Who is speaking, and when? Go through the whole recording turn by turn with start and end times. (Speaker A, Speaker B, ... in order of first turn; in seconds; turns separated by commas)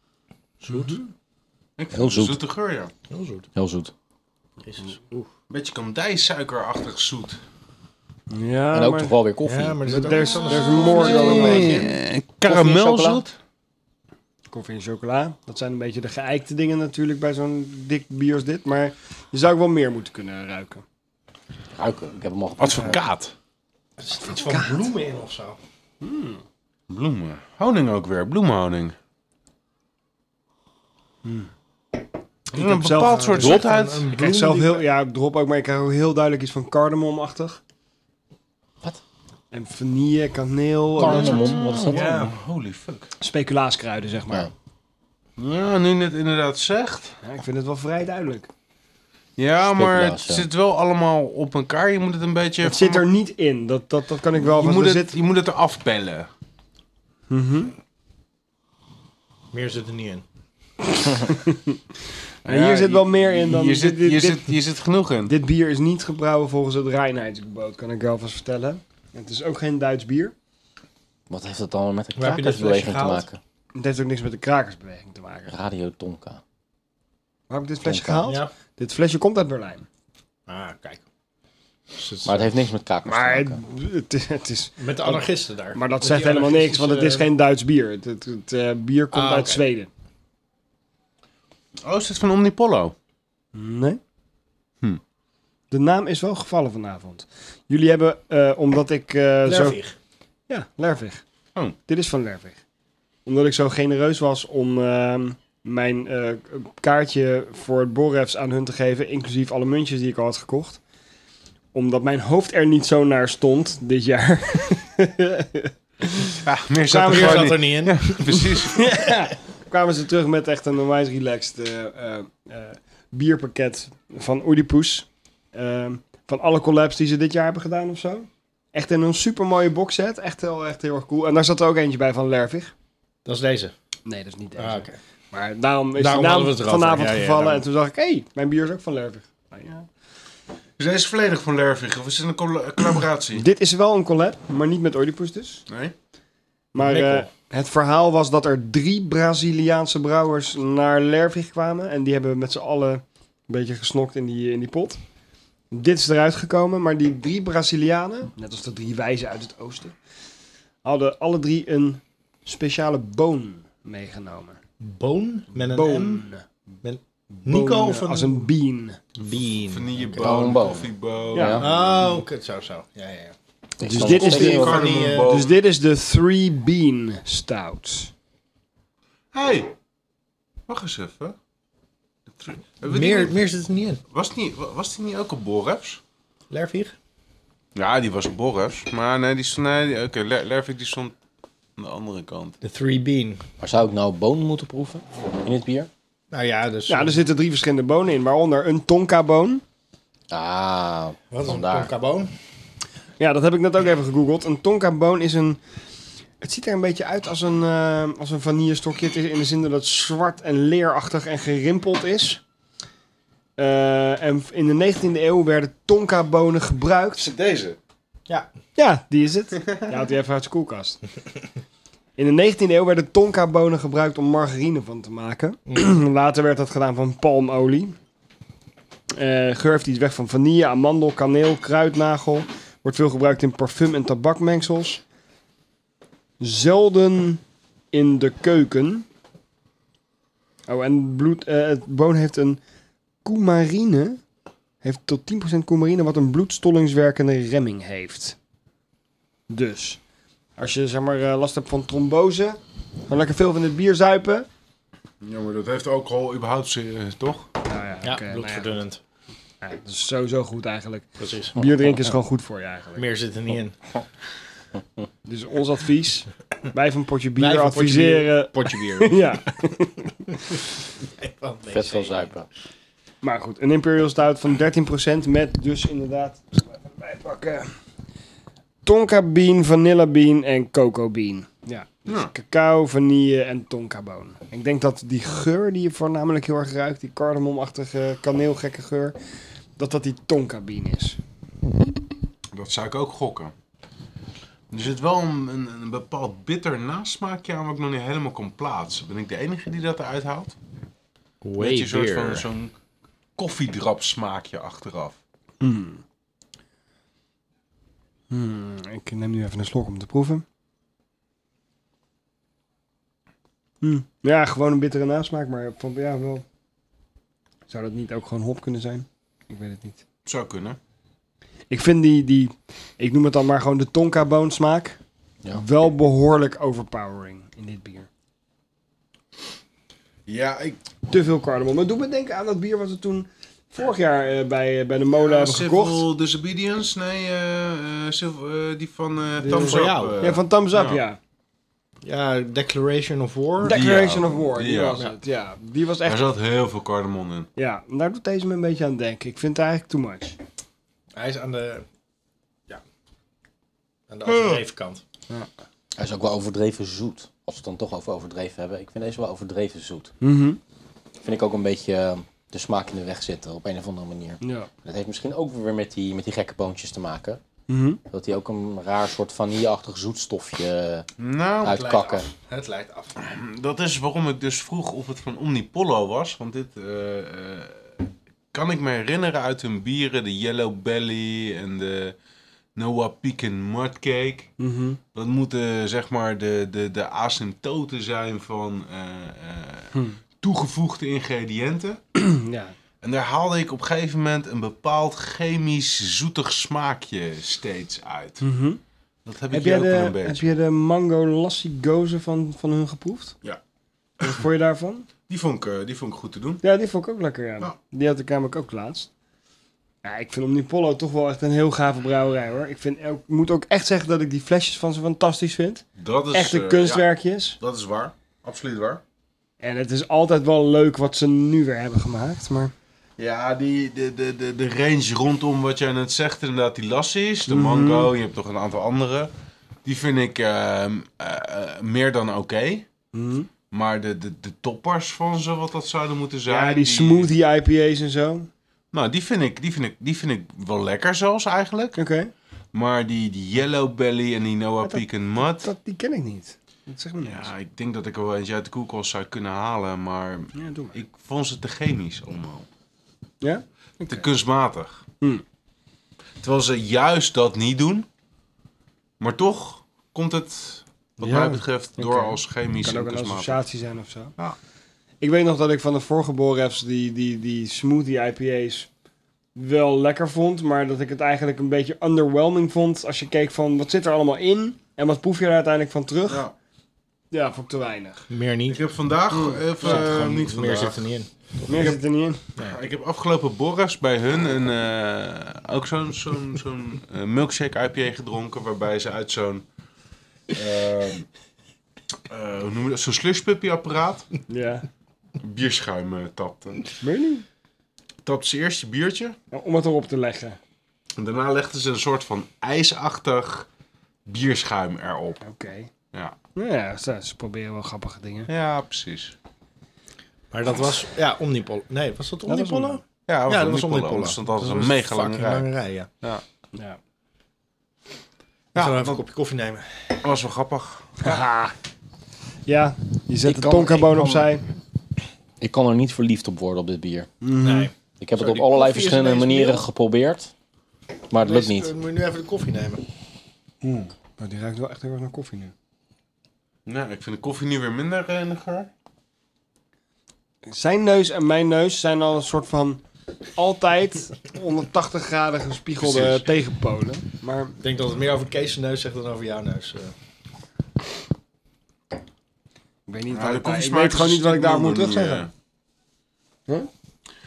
Speaker A: 0.6-1.0, Speaker B: 0.7-1.1, Speaker C: 1.8-2.9, Speaker D: 1.9-2.4, Speaker A: 3.1-3.5, Speaker D: 3.5-3.9, Speaker A: 4.6-5.2, Speaker C: 5.5-7.4, Speaker B: 8.3-9.2, Speaker D: 8.7-10.1, Speaker A: 9.4-11.9, Speaker B: 9.9-11.9, Speaker C: 10.6-13.3, Speaker D: 12.4-13.2, Speaker B: 14.5-20.8, Speaker D: 21.8-23.0, Speaker C: 22.6-23.3, Speaker A: 24.0-25.6, Speaker B: 24.3-24.8, Speaker B: 26.0-26.4, Speaker C: 26.9-29.0, Speaker B: 31.2-31.5, Speaker C: 32.5-34.1, Speaker A: 32.5-34.9, Speaker B: 32.6-37.6, Speaker B: 39.5-42.0, Speaker D: 41.0-42.0, Speaker C: 41.0-43.1, Speaker A: 41.9-42.3, Speaker B: 43.2-44.5, Speaker C: 45.4-47.2, Speaker B: 47.2-48.5, Speaker C: 49.4-53.1, Speaker D: 49.6-50.5, Speaker B: 52.6-55.2, Speaker C: 54.3-56.3, Speaker B: 57.3-57.7, Speaker A: 59.5-60.2, Speaker B: 61.1-61.6, Speaker B: 62.5-64.5, Speaker C: 62.5-65.3, Speaker B: 65.3-70.3, Speaker D: 71.3-73.4, Speaker A: 72.2-73.3, Speaker B: 73.8-75.5, Speaker D: 75.5-76.4, Speaker B: 77.5-79.9, Speaker D: 77.8-78.2, Speaker A: 78.2-78.5, Speaker A: 80.5-81.0, Speaker A: 81.9-82.6, Speaker D: 82.2-83.6, Speaker B: 83.1-89.9, Speaker A: 84.8-87.3, Speaker A: 89.1-89.7, Speaker C: 91.8-93.0, Speaker B: 93.5-94.0, Speaker B: 95.7-99.8, Speaker A: 99.5-100.0, Speaker B: 100.5-101.2, Speaker B: 101.9-102.6, Speaker B: 103.3-110.8, Speaker B: 111.7-116.3, Speaker C: 116.4-118.8, Speaker B: 116.9-117.6, Speaker A: 116.9-118.5, Speaker B: 118.6-132.7, Speaker A: 133.2-133.7, Speaker B: 134.1-139.9, Speaker A: 134.6-135.0, Speaker A: 135.9-137.7, Speaker C: 140.8-143.4, Speaker B: 143.4-145.6, Speaker C: 145.7-145.9, Speaker B: 146.7-155.0, Speaker A: 146.8-147.3, Speaker B: 155.7-159.9, Speaker B: 160.8-164.6, Speaker A: 164.8-166.3, Speaker B: 165.6-166.4, Speaker A: 166.8-168.5, Speaker B: 167.4-169.0, Speaker A: 169.2-170.4, Speaker C: 169.7-172.2, Speaker D: 170.2-171.6, Speaker A: 171.6-173.3, Speaker D: 173.8-174.8, Speaker B: 173.8-178.1, Speaker A: 173.9-175.4, Speaker C: 174.0-175.6, Speaker C: 179.3-179.7, Speaker C: 180.7-181.4, Speaker C: 182.3-183.3, Speaker A: 182.8-184.0, Speaker C: 184.1-186.0, Speaker A: 186.5-186.9, Speaker C: 187.8-191.1, Speaker C: 191.8-192.6, Speaker A: 192.6-193.4, Speaker D: 193.6-195.9, Speaker A: 196.3-197.2, Speaker B: 196.9-199.6, Speaker D: 200.3-201.9, Speaker A: 201.3-202.3, Speaker B: 203.2-205.6, Speaker B: 206.4-212.4, Speaker B: 213.6-217.2, Speaker C: 217.2-217.8, Speaker B: 218.8-221.0, Speaker B: 222.2-228.0, Speaker B: 229.2-235.0, Speaker B: 236.4-239.1, Speaker B: 240.7-242.6, Speaker B: 243.2-244.2, Speaker B: 244.8-248.4, Speaker B: 249.5-250.0, Speaker B: 250.6-254.5, Speaker C: 255.2-257.5, Speaker B: 257.7-258.8, Speaker A: 258.0-259.0, Speaker B: 259.6-263.1, Speaker A: 261.2-261.6, Speaker A: 263.0-263.8, Speaker B: 265.2-270.6, Speaker A: 267.4-269.4, Speaker A: 271.2-272.3, Speaker D: 271.7-272.5, Speaker B: 273.2-277.8, Speaker B: 278.8-289.2, Speaker C: 282.1-282.3, Speaker B: 289.8-291.2, Speaker C: 292.5-293.5, Speaker C: 294.7-300.6, Speaker A: 301.4-302.5, Speaker C: 301.6-302.7, Speaker C: 303.4-305.2, Speaker B: 305.6-306.0, Speaker B: 308.3-310.4, Speaker B: 313.8-316.4, Speaker B: 317.7-320.0, Speaker C: 320.2-320.8, Speaker B: 321.7-325.0, Speaker B: 325.5-328.1, Speaker C: 330.3-330.8, Speaker B: 331.1-336.1, Speaker C: 335.1-341.0, Speaker B: 339.4-341.2, Speaker A: 339.5-340.4, Speaker A: 342.0-344.0, Speaker B: 343.6-346.2, Speaker C: 343.6-345.1, Speaker C: 346.1-347.5, Speaker B: 347.6-350.4, Speaker A: 351.1-351.9, Speaker A: 354.1-355.0, Speaker D: 356.0-360.1, Speaker B: 360.2-360.6, Speaker D: 361.2-367.4, Speaker B: 364.4-364.7, Speaker B: 367.7-368.0, Speaker D: 368.1-371.1, Speaker C: 371.2-372.0, Speaker D: 371.6-372.3, Speaker A: 371.6-373.2, Speaker C: 373.2-378.0, Speaker C: 378.5-382.1, Speaker C: 382.8-384.5, Speaker B: 384.6-385.0, Speaker C: 385.1-392.0, Speaker B: 392.2-392.8, Speaker C: 393.0-398.5, Speaker B: 398.4-398.8, Speaker C: 399.2-400.5, Speaker B: 399.5-403.4, Speaker B: 404.2-405.1, Speaker C: 405.3-406.6, Speaker B: 406.6-409.1, Speaker B: 410.0-417.6, Speaker C: 416.0-417.1, Speaker C: 417.6-419.0, Speaker B: 419.6-422.7, Speaker C: 423.2-429.3, Speaker B: 427.5-428.1, Speaker C: 429.9-432.9, Speaker B: 433.1-433.5, Speaker C: 433.7-437.3, Speaker B: 436.5-438.5, Speaker C: 438.9-442.0, Speaker B: 442.0-442.3, Speaker C: 442.7-445.7, Speaker B: 444.8-447.5, Speaker C: 447.2-452.7, Speaker B: 450.6-451.0, Speaker B: 453.4-454.3, Speaker C: 454.0-455.0, Speaker C: 456.4-458.1, Speaker C: 459.2-463.6, Speaker B: 461.2-464.3, Speaker B: 465.2-468.9, Speaker B: 469.6-476.4, Speaker C: 476.3-476.5, Speaker B: 477.3-478.2, Speaker A: 478.3-478.8, Speaker C: 478.7-481.1, Speaker B: 479.4-480.1, Speaker A: 479.8-481.3, Speaker C: 481.6-482.0, Speaker B: 481.7-482.4, Speaker C: 482.6-489.6, Speaker C: 490.5-491.3, Speaker C: 492.3-494.3, Speaker B: 494.5-494.9, Speaker C: 495.4-496.9, Speaker B: 497.0-497.4, Speaker C: 498.2-499.4, Speaker B: 499.5-500.6, Speaker C: 501.2-503.7, Speaker C: 504.3-505.5, Speaker B: 505.4-505.9, Speaker B: 506.6-508.5, Speaker C: 508.5-509.4, Speaker A: 510.5-516.1, Speaker B: 512.5-513.0, Speaker C: 513.3-515.7, Speaker B: 516.2-517.0, Speaker C: 518.7-519.2, Speaker A: 518.7-519.9, Speaker C: 520.2-521.2, Speaker B: 521.2-521.8, Speaker B: 522.7-524.6, Speaker D: 523.5-524.4, Speaker D: 525.6-527.3, Speaker B: 527.4-527.9, Speaker A: 527.5-529.8, Speaker D: 528.2-530.5, Speaker D: 531.3-531.9, Speaker A: 531.3-533.0, Speaker C: 533.8-534.1, Speaker B: 534.4-535.7, Speaker C: 536.9-538.9, Speaker B: 540.7-543.0, Speaker B: 543.6-547.8, Speaker C: 546.0-546.5, Speaker A: 547.8-550.1, Speaker B: 553.1-555.5, Speaker C: 553.3-555.5